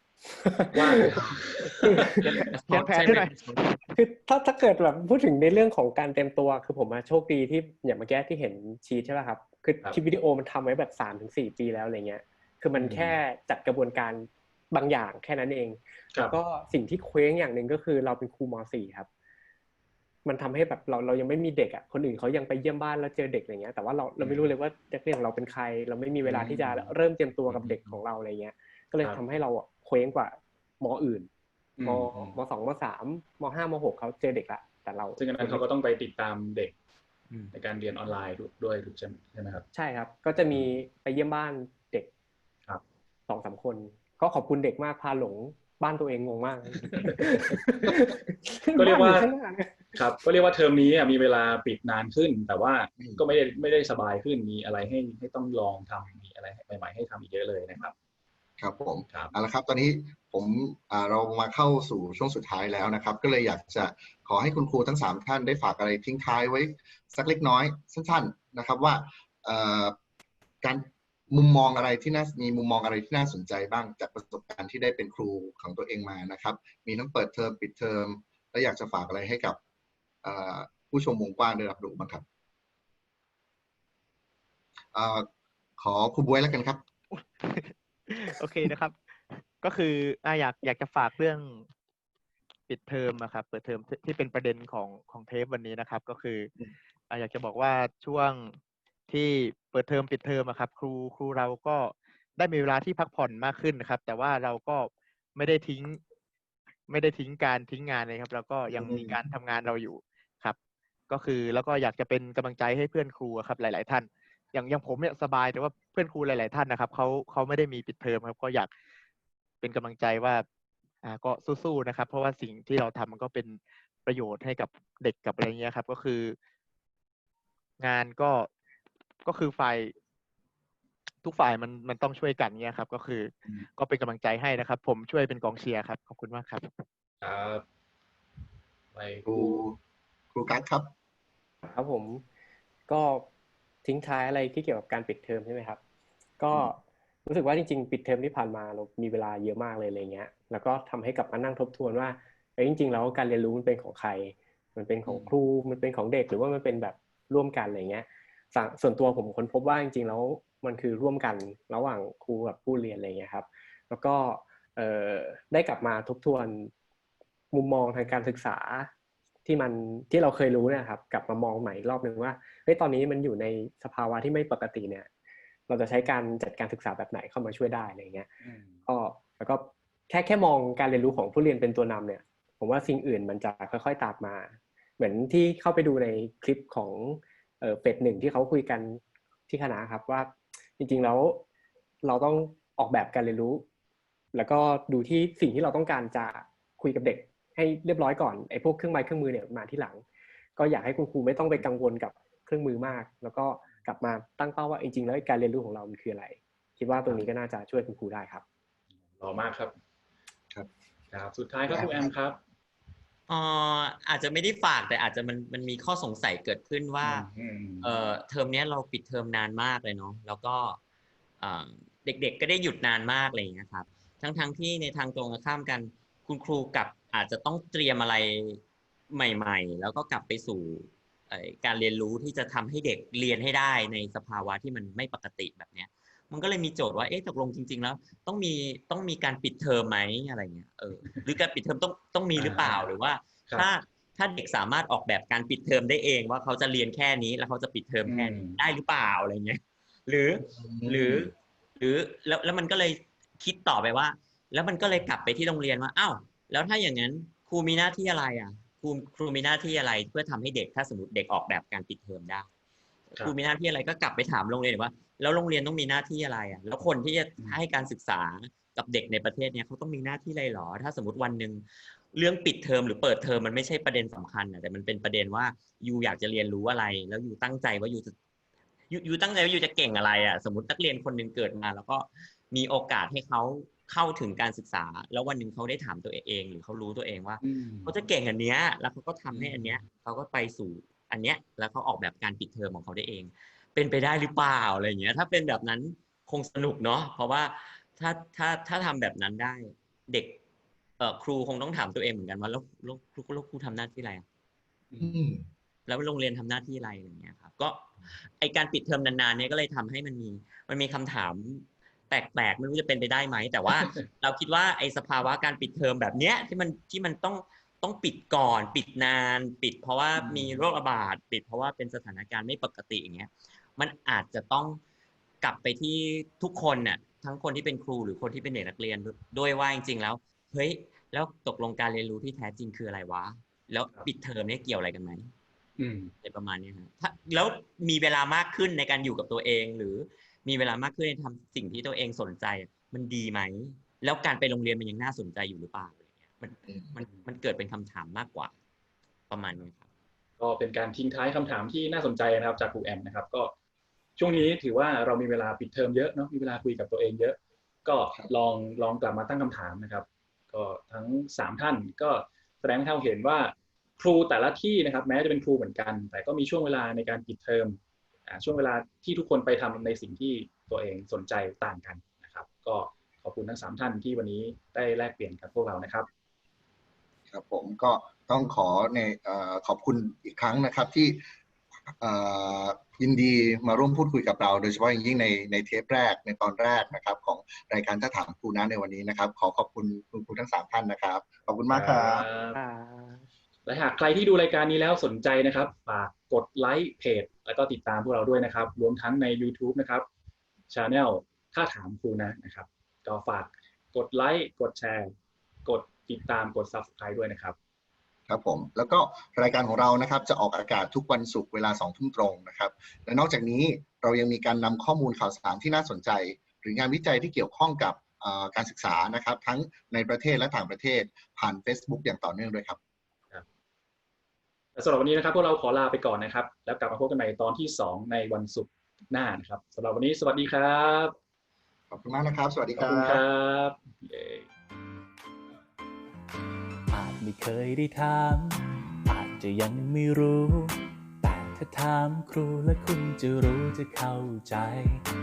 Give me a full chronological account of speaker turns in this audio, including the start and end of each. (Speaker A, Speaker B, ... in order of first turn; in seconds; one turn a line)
Speaker A: 0.3-1.1
Speaker B: 0.7-3.3
Speaker A: 1.8-2.2
Speaker C: 2.2-3.9
Speaker A: 4.0-19.1
Speaker B: 12.8-13.2
Speaker A: 20.2-31.3
Speaker B: 24.2-24.5
Speaker B: 26.2-26.9
Speaker B: 27.5-28.0
Speaker B: 31.8-32.4
Speaker A: 31.8-35.6
Speaker B: 35.2-36.7
Speaker B: 37.5-39.6
Speaker A: 39.7-42.1
Speaker A: 43.3-49.8
Speaker B: 46.8-48.0
Speaker B: 48.7-49.3
Speaker B: 49.9-57.9
Speaker D: 58.6-70.0
Speaker B: 59.1-59.3
Speaker D: 70.6-79.6
Speaker D: 80.2-82.2
Speaker D: 84.9-86.8
Speaker C: 87.1-91.7
Speaker C: 92.7-96.5
Speaker C: 97.1-98.5
Speaker C: 99.1-106.0
Speaker C: 106.9-110.5
Speaker D: 108.8-109.2
Speaker C: 111.1-118.7
Speaker C: 119.6-120.4
Speaker C: 121.0-126.3
Speaker C: 127.8-128.5
Speaker C: 129.2-129.9
Speaker C: 131.2-136.8
Speaker B: 137.2-137.6
Speaker B: 138.9-139.6
Speaker D: 139.2-139.8
Speaker D: 140.3-140.9
Speaker A: 141.7-142.2
Speaker A: 142.9-143.2
Speaker A: 143.8-145.8
Speaker A: 146.4-166.7
Speaker B: 155.1-155.3
Speaker A: 167.5-168.9
Speaker A: 169.4-175.1
Speaker A: 175.7-178.3
Speaker B: 178.4-178.8
Speaker A: 178.8-191.4
Speaker A: 192.0-193.6
Speaker A: 194.3-200.0
Speaker A: 200.6-208.4
Speaker B: 209.1-209.7
Speaker B: 211.1-212.4
Speaker D: 211.7-212.1
Speaker E: 213.3-217.3
Speaker B: 217.0-217.9
Speaker E: 217.8-220.8
Speaker E: 221.4-262.5
Speaker B: 242.3-242.8
Speaker B: 248.0-248.6
Speaker D: 250.5-251.3
Speaker E: 263.2-278.1
Speaker E: 278.9-300.4
Speaker B: 287.4-287.9
Speaker B: 289.3-289.9
Speaker E: 301.0-304.2
Speaker B: 304.9-305.2
Speaker D: 305.0-305.5
Speaker E: 305.9-324.8
Speaker B: 313.8-314.1
Speaker B: 320.2-320.6
Speaker E: 325.4-335.3
Speaker B: 335.8-336.1
Speaker E: 336.2-348.5
Speaker E: 349.3-349.9
Speaker B: 350.4-353.5
Speaker B: 354.2-376.1
Speaker D: 377.3-381.2
Speaker D: 382.0-392.2
Speaker B: 391.7-392.6
Speaker A: 392.5-393.2
Speaker B: 393.6-400.1
Speaker B: 400.7-405.1
Speaker B: 405.6-407.6
Speaker D: 408.3-422.8
Speaker B: 424.7-431.1
Speaker D: 431.9-433.2
Speaker B: 432.8-434.5
Speaker F: 436.9-445.1